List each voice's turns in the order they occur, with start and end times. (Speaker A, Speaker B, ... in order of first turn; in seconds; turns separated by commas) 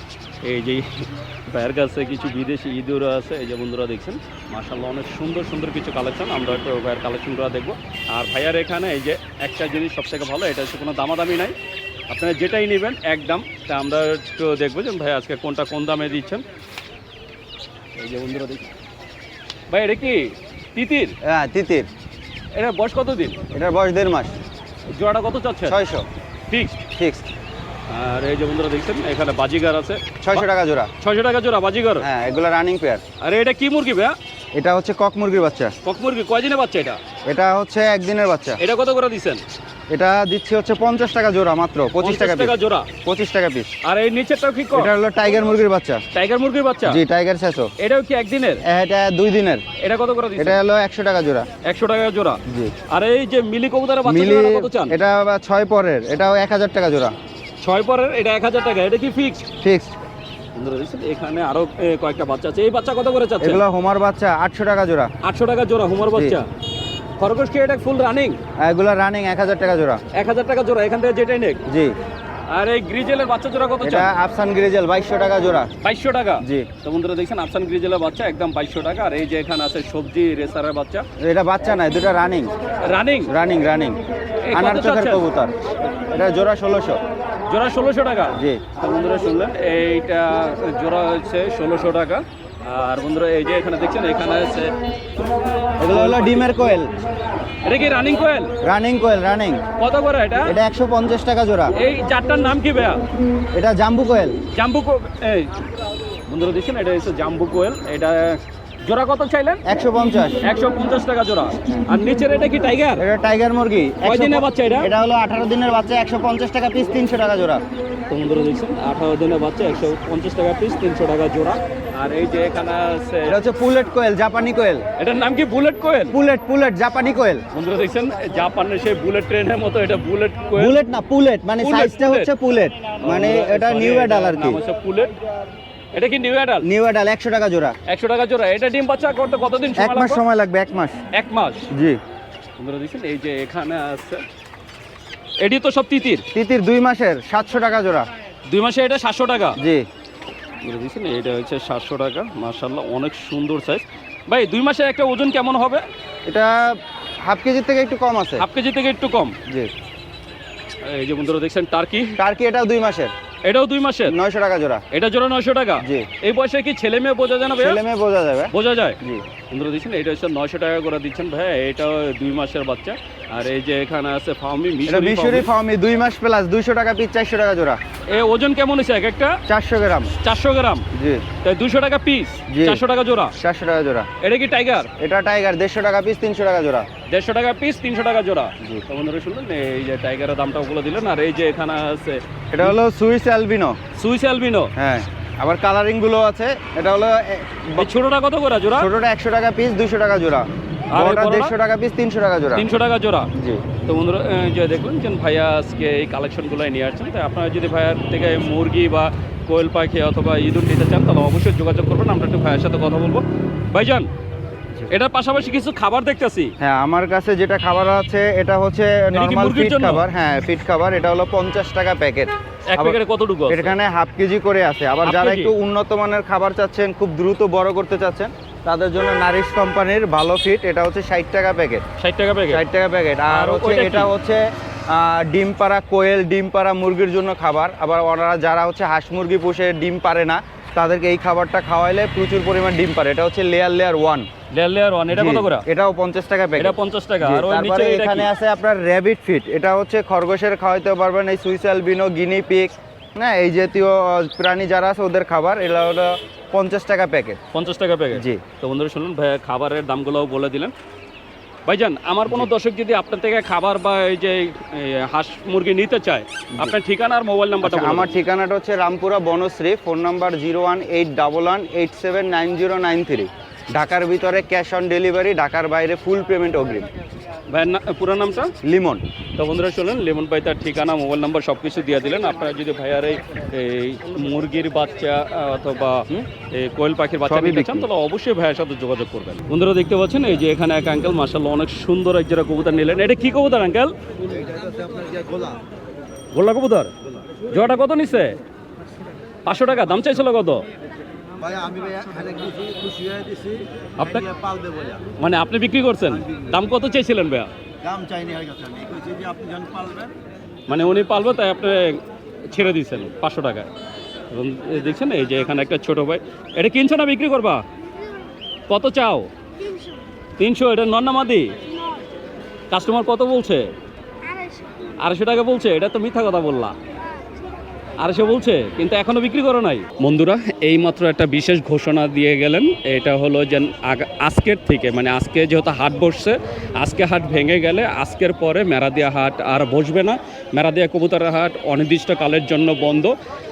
Speaker A: 0.4-11.6, Speaker A: 12.1-16.4, Speaker A: 18.0-18.7, Speaker A: 19.7-21.1, Speaker B: 21.2-21.9, Speaker A: 22.5-23.4, Speaker B: 23.5-24.4, Speaker A: 24.9-25.8, Speaker B: 25.7-26.1, Speaker A: 26.5-26.8, Speaker B: 26.9-27.3, Speaker A: 27.9-30.5, Speaker B: 30.2-30.9, Speaker A: 31.0-32.1, Speaker B: 32.0-33.0, Speaker A: 33.2-34.2, Speaker B: 34.5-35.7, Speaker A: 35.8-37.0, Speaker B: 37.3-38.6, Speaker A: 38.6-39.4, Speaker B: 39.9-43.7, Speaker A: 42.0-42.9, Speaker A: 43.8-44.9, Speaker B: 44.7-46.0, Speaker A: 46.1-47.0, Speaker B: 46.9-47.7, Speaker A: 47.8-48.6, Speaker B: 48.6-49.6, Speaker A: 49.8-50.6, Speaker B: 50.4-51.5, Speaker A: 51.6-55.0, Speaker B: 52.5-52.7, Speaker B: 54.1-57.1, Speaker A: 57.6-59.5, Speaker B: 59.6-59.9, Speaker A: 60.5-63.6, Speaker B: 63.4-65.1, Speaker A: 65.2-66.5, Speaker B: 66.1-66.4, Speaker A: 67.2-68.4, Speaker B: 68.6-70.0, Speaker A: 70.1-71.6, Speaker B: 71.7-72.0, Speaker A: 72.5-74.1, Speaker B: 73.8-75.7, Speaker A: 75.8-81.1, Speaker B: 76.4-76.7, Speaker B: 81.2-82.5, Speaker A: 82.8-83.3, Speaker B: 83.3-84.0, Speaker A: 84.4-85.2, Speaker B: 84.5-85.5, Speaker B: 86.1-87.0, Speaker A: 87.5-94.8, Speaker B: 88.3-88.6, Speaker B: 95.8-96.9, Speaker A: 95.9-96.5, Speaker A: 97.6-98.5, Speaker B: 98.6-99.6, Speaker A: 99.8-100.6, Speaker B: 100.5-101.7, Speaker A: 101.8-103.0, Speaker B: 103.5-104.4, Speaker A: 104.5-105.6, Speaker A: 106.3-109.6, Speaker B: 109.7-110.4, Speaker A: 110.4-113.0, Speaker B: 113.0-117.6, Speaker A: 114.0-114.9, Speaker A: 118.1-123.4, Speaker B: 123.2-124.9, Speaker A: 125.0-126.2, Speaker B: 126.1-127.5, Speaker A: 127.5-130.8, Speaker B: 130.6-134.6, Speaker A: 131.6-132.3, Speaker A: 133.0-135.2, Speaker A: 135.9-136.7, Speaker B: 136.6-137.8, Speaker A: 137.9-140.2, Speaker B: 139.8-141.0, Speaker A: 141.1-141.7, Speaker B: 141.7-142.0, Speaker A: 142.6-144.3, Speaker A: 145.4-146.2, Speaker B: 146.3-148.1, Speaker A: 148.5-149.6, Speaker B: 149.6-149.9, Speaker A: 150.6-155.9, Speaker B: 156.3-158.4, Speaker A: 158.4-159.4, Speaker A: 160.8-162.2, Speaker B: 162.2-163.1, Speaker A: 163.4-164.2, Speaker B: 164.1-164.8, Speaker A: 164.9-167.8, Speaker B: 165.8-166.1, Speaker B: 167.6-169.2, Speaker A: 168.5-169.0, Speaker A: 169.5-175.5, Speaker B: 174.9-177.8, Speaker A: 178.1-179.4, Speaker B: 179.5-180.1, Speaker A: 180.2-180.9, Speaker B: 180.9-181.2, Speaker A: 181.4-183.4, Speaker B: 182.5-182.8, Speaker B: 183.4-184.1, Speaker A: 184.2-184.9, Speaker B: 185.0-186.9, Speaker A: 187.1-192.7, Speaker B: 192.5-193.8, Speaker A: 193.9-194.7, Speaker B: 194.8-197.9, Speaker A: 197.8-198.9, Speaker B: 198.8-202.7, Speaker A: 200.9-201.5, Speaker A: 202.6-203.3, Speaker B: 203.4-203.6, Speaker A: 203.8-214.1, Speaker A: 214.9-216.5, Speaker B: 216.6-223.0, Speaker A: 219.1-220.0, Speaker A: 222.7-223.8, Speaker B: 223.5-231.8, Speaker A: 225.0-225.5, Speaker A: 232.0-232.6, Speaker B: 232.5-244.3, Speaker A: 233.3-234.1, Speaker A: 244.5-245.7, Speaker B: 245.1-257.4, Speaker A: 246.6-248.3, Speaker A: 257.5-260.7, Speaker B: 258.1-258.4, Speaker A: 261.7-268.2, Speaker B: 267.6-276.9, Speaker A: 277.5-278.5, Speaker B: 278.6-279.0, Speaker A: 279.4-293.9, Speaker B: 287.2-287.9, Speaker B: 294.2-295.6, Speaker A: 296.3-296.9, Speaker A: 297.5-298.4, Speaker A: 299.5-300.6, Speaker B: 301.4-305.0, Speaker A: 304.0-304.3, Speaker A: 305.2-307.5, Speaker B: 306.1-306.6, Speaker B: 307.8-310.1, Speaker A: 310.7-313.7, Speaker A: 314.3-317.6, Speaker A: 318.7-319.3, Speaker A: 320.4-321.5, Speaker A: 322.7-323.7, Speaker A: 325.0-326.8, Speaker A: 328.0-343.2